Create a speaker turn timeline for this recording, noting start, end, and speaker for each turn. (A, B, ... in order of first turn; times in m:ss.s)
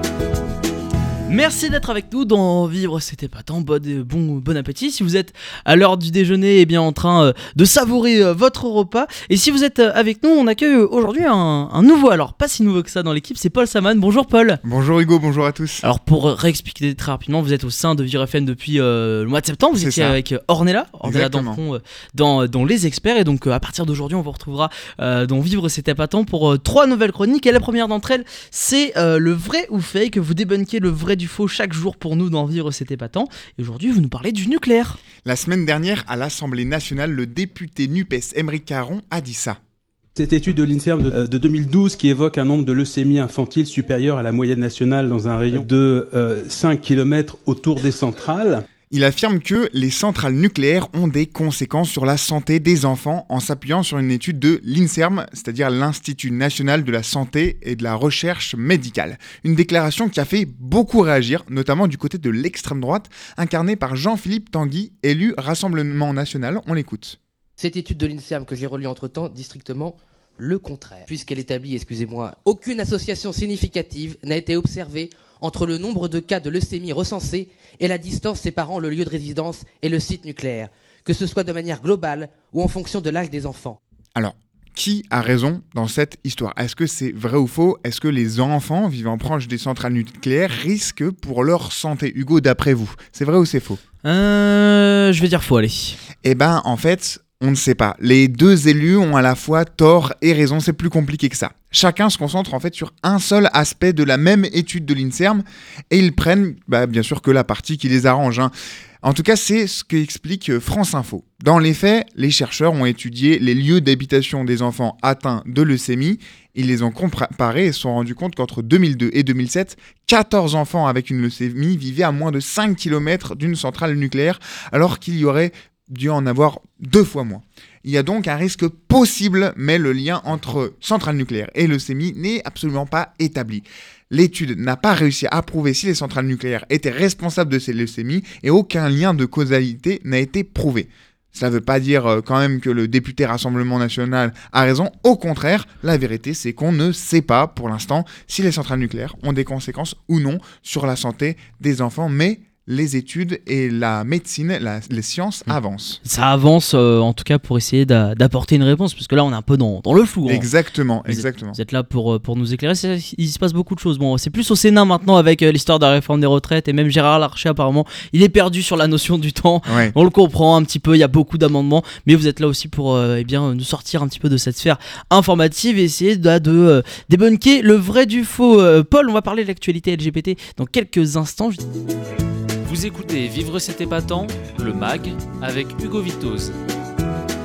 0:01.3-0:14.6 A
0:14.6-0:15.8 B
0:15.8-0:35.0 A
0:19.8-0:20.2 B
0:21.0-0:21.6 B
0:35.2-0:39.6 B
0:40.2-0:48.6 C
0:48.9-1:07.2 B
1:07.6-1:23.8 D
1:24.2-1:33.8 B
1:34.0-1:36.0 A
1:36.2-1:48.5 B
1:49.0-2:36.0 B
2:36.0-2:40.5 A
2:40.2-2:41.6 B
2:41.1-3:01.6 A
2:49.7-2:49.9 B
3:02.7-3:06.5 E